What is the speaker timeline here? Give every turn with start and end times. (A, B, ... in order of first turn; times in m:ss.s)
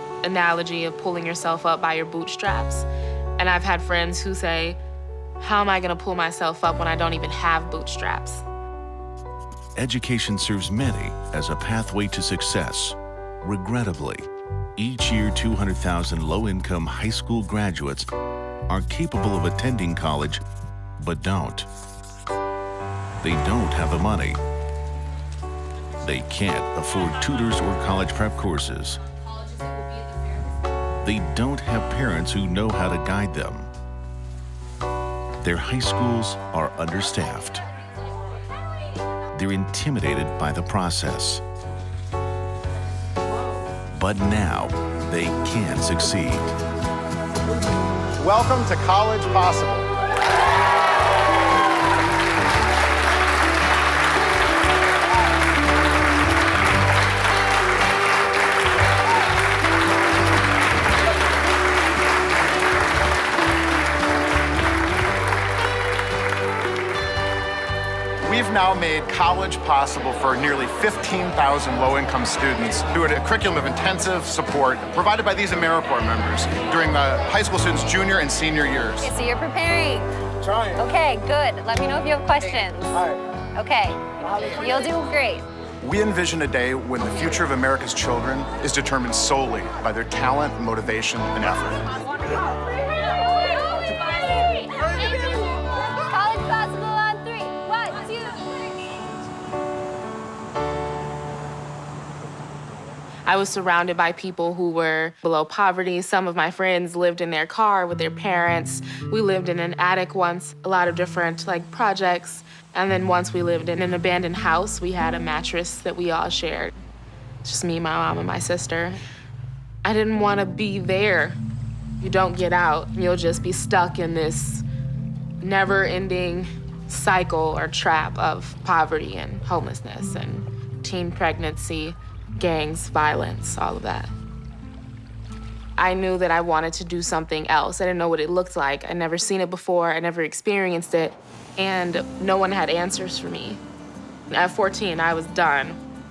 0:00.2-0:04.8 A
0:05.4-0:08.4 A
0:09.8-0:18.1 B
0:18.7-0:20.4 B
0:21.0-0:21.7 B
0:23.2-0:24.4 B
0:26.0-0:29.0 B
0:31.0-0:33.7 B
0:35.4-0:37.6 B
0:39.3-0:41.4 B
0:44.0-0:46.5 B
0:49.3-0:49.7 C
1:08.3-1:18.8 C
1:19.0-1:20.1 D
1:20.7-1:23.0 D
1:23.6-1:25.4 D
1:25.8-1:31.8 C
1:34.9-1:38.7 D
1:43.2-1:56.7 A
1:57.4-1:59.0 A
1:59.8-2:01.4 A
2:02.0-2:04.6 A
2:05.4-2:14.1 A
2:15.8-2:23.6 A
2:24.3-2:25.8 A